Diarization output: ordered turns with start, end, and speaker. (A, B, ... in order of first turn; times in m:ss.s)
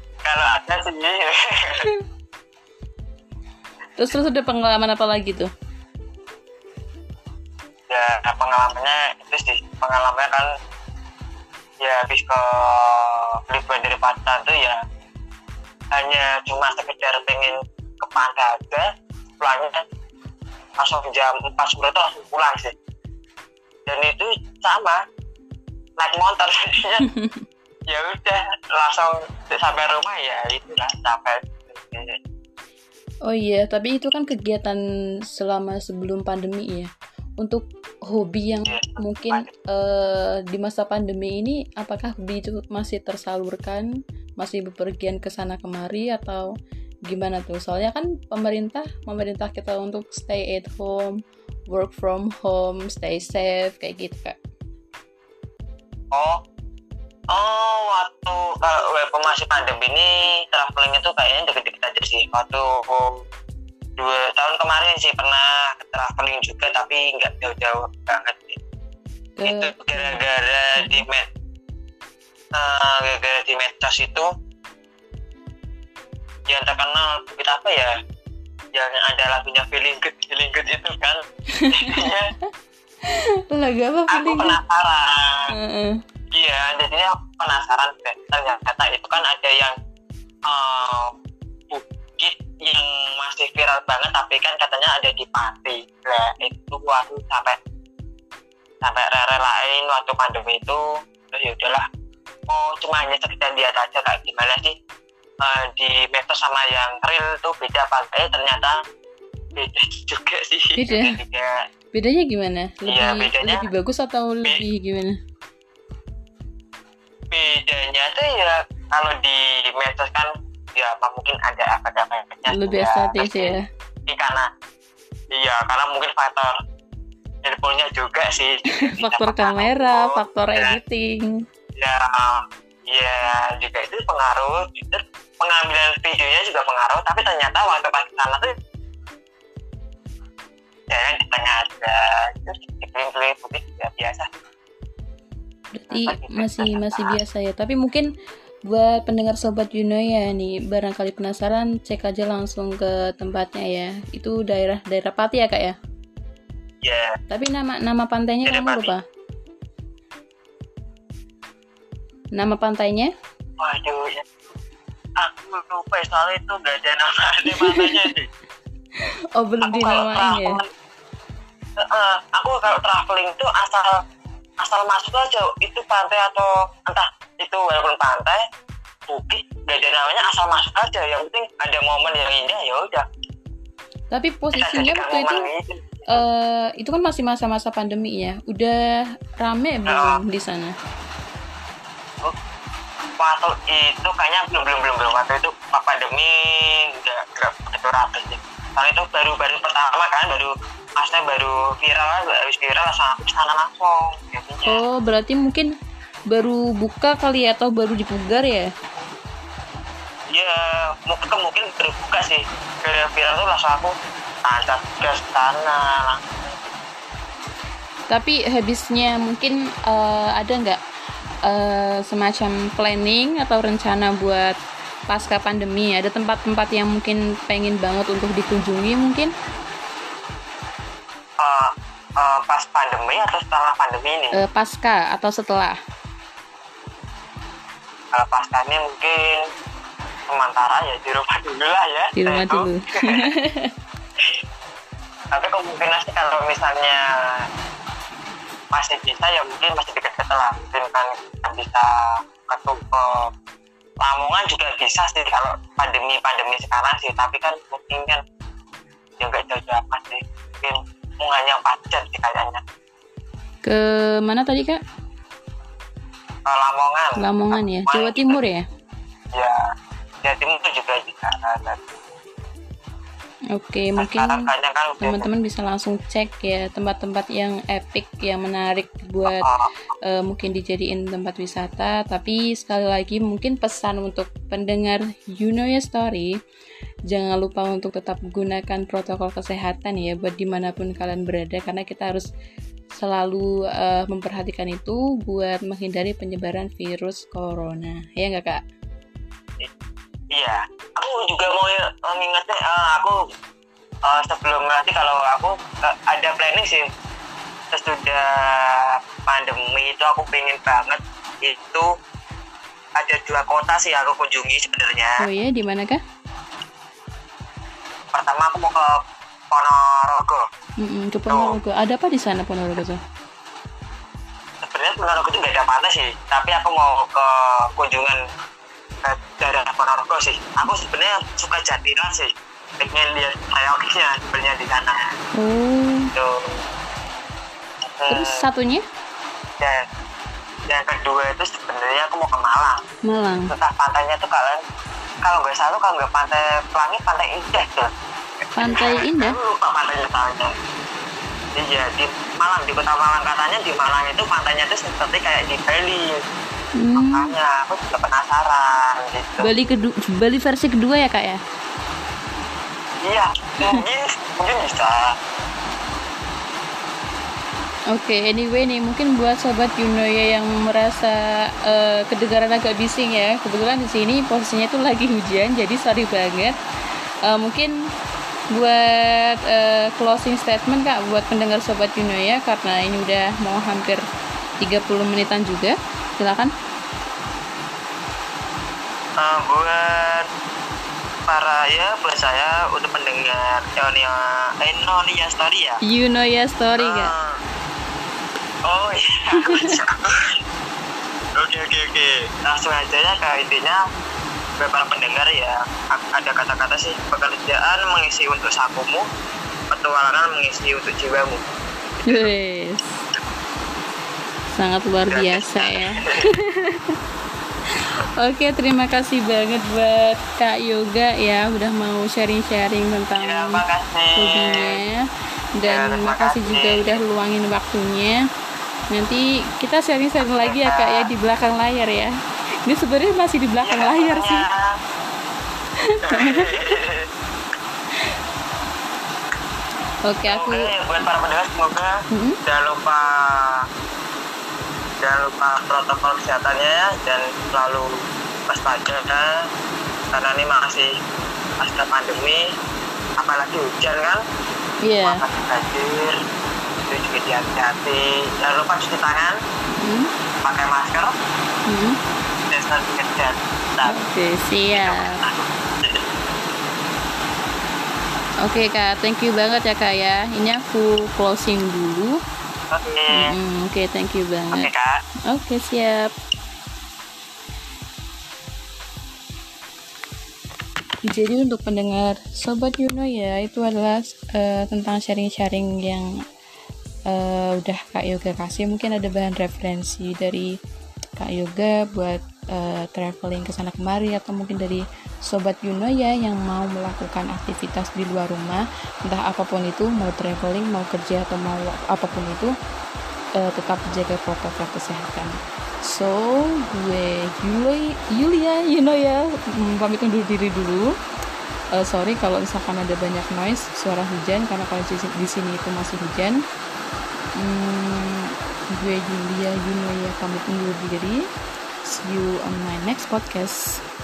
0:00.2-0:01.9 A
0:04.0-0:05.5 B
0:07.9-0:10.5 A
0:11.8-0:14.8 A
0:15.9-0:18.9 A
0:19.4-0:19.8 A
0:20.8-0:22.7 A
0:23.9-0:25.0 A
0:26.0-0:27.0 A
0:27.0-0:27.4 B
0:27.9-0:32.2 A
0:33.3-0:34.8 B
0:35.3-0:36.9 B
0:37.4-0:43.8 B
0:38.7-0:39.5 A
0:44.4-0:46.5 B
0:47.1-0:51.2 B
0:51.7-0:54.4 B
0:56.1-0:56.4 A
0:57.3-1:03.2 A
1:04.0-1:08.6 A
1:09.4-1:10.2 B
1:09.4-1:11.3 A
1:10.8-1:11.0 B
1:12.5-1:14.3 A
1:16.4-1:17.9 A
1:18.7-1:22.3 A
1:21.5-1:22.1 B
1:23.0-1:24.6 B
1:24.1-1:25.4 A
1:25.5-1:26.0 B
1:26.3-1:29.7 A
1:30.4-1:31.1 A
1:31.7-1:37.6 A
1:38.8-1:41.8 A
1:42.5-1:44.7 A
1:45.4-1:48.8 A
1:49.6-1:51.5 A
1:50.8-1:51.2 B
1:51.9-1:55.2 B
1:52.8-1:53.7 A
1:57.3-2:03.5 A
2:02.5-2:03.6 B
2:04.1-2:04.5 A
2:05.3-2:06.6 A
2:07.4-2:10.8 A
2:08.7-2:11.3 B
2:11.8-2:18.5 A
2:20.9-2:24.3 A
2:25.8-2:28.1 B
2:25.9-2:27.2 A
2:28.7-2:35.8 B
2:36.8-2:37.2 A
2:37.3-2:39.0 B
2:38.4-2:38.9 A
2:42.4-2:43.1 B
2:43.6-2:44.3 A
2:45.2-2:48.3 A
2:47.5-2:48.0 B
2:49.4-2:50.6 B
2:49.6-2:50.7 A
2:51.8-2:53.9 A
2:54.6-2:58.4 A
2:59.1-3:03.0 A
3:04.1-3:05.4 B
3:04.5-3:06.2 A
3:06.1-3:08.8 B
3:09.4-3:10.7 B
3:09.9-3:10.2 A
3:13.2-3:24.8 A
3:24.6-3:25.7 B
3:26.3-3:28.7 B
3:30.3-3:33.9 A
3:34.4-3:36.6 A
3:38.1-3:40.8 B
3:41.5-3:44.6 B
3:45.1-3:49.3 B
3:51.4-3:54.3 A
3:54.3-3:55.8 B
3:58.1-3:59.4 A
4:00.3-4:03.2 A
4:02.2-4:03.7 B
4:05.3-4:07.0 A
4:08.7-4:11.9 A
4:12.4-4:13.3 A
4:14.0-4:18.2 A
4:19.2-4:22.6 A
4:23.6-4:24.8 B
4:26.4-4:28.4 A
4:27.2-4:28.6 B
4:30.2-4:31.9 A
4:33.5-4:34.5 B
4:34.0-4:35.3 A
4:35.0-4:39.5 B
4:39.2-4:39.7 A
4:40.0-4:46.3 B
4:47.1-4:52.3 B
4:52.9-4:58.6 B
5:00.3-5:03.2 A
5:04.1-5:06.9 A
5:07.7-5:11.9 A
5:13.0-5:15.2 A
5:15.2-5:16.0 B
5:18.1-5:19.0 A
5:19.5-5:20.4 A
5:20.8-5:23.0 B
5:21.3-5:21.6 A
5:24.6-5:28.2 A
5:29.0-5:35.1 A
5:35.4-5:36.1 B
5:36.1-5:36.6 A
5:38.0-5:38.4 A
5:38.1-5:38.8 B
5:39.6-5:39.8 A
5:40.7-5:42.8 A
5:43.0-5:43.5 B
5:43.5-5:44.6 A
5:45.2-5:47.9 A
5:48.6-5:49.4 B
5:48.6-5:50.5 A
5:51.6-5:56.2 A
5:56.8-5:57.3 B
5:57.0-5:59.5 A
5:59.4-6:01.4 B
6:03.0-6:05.1 A
6:07.9-6:16.5 B
6:17.2-6:17.7 B
6:18.5-6:24.0 B
6:24.6-6:26.5 B
6:29.2-6:30.3 A
6:31.3-6:35.8 A
6:35.8-6:37.1 B
6:36.8-6:37.4 A
6:38.7-6:40.3 A
6:39.4-6:39.8 B
6:41.4-6:43.8 A
6:44.6-6:49.0 A
6:49.7-6:51.4 A
6:52.0-6:52.9 B
6:54.5-6:56.8 B
6:55.1-6:56.2 A
6:58.2-7:03.6 B
7:03.2-7:04.8 A
7:04.1-7:08.2 B
7:05.7-7:07.0 A
7:08.9-7:12.1 B
7:10.4-7:11.0 A
7:12.6-7:14.4 B
7:13.6-7:14.6 A
7:15.8-7:16.7 B
7:16.0-7:17.0 A
7:20.1-7:20.7 B
7:20.3-7:21.9 A
7:22.1-7:22.4 B
7:22.4-7:23.6 A
7:25.0-7:28.0 A
7:28.5-7:29.3 A
7:30.1-7:30.9 A
7:31.6-7:32.4 A
7:33.2-7:34.2 A
7:34.8-7:35.2 B
7:35.0-7:36.2 A
7:36.9-7:39.4 A
7:39.8-7:40.1 B
7:40.4-7:41.1 A
7:41.7-7:42.0 B
7:42.5-7:44.0 A
7:43.8-7:45.2 B
7:44.7-7:46.0 A
7:48.4-7:52.2 B
7:52.7-7:53.3 A
7:53.1-7:54.7 B
7:54.5-7:54.9 A
7:55.3-7:56.1 B
8:01.1-8:06.1 B
8:07.1-8:10.5 B
8:11.2-8:22.5 B
8:23.4-8:30.9 B
8:31.8-8:36.4 B
8:37.4-8:41.2 B
8:41.8-8:43.8 B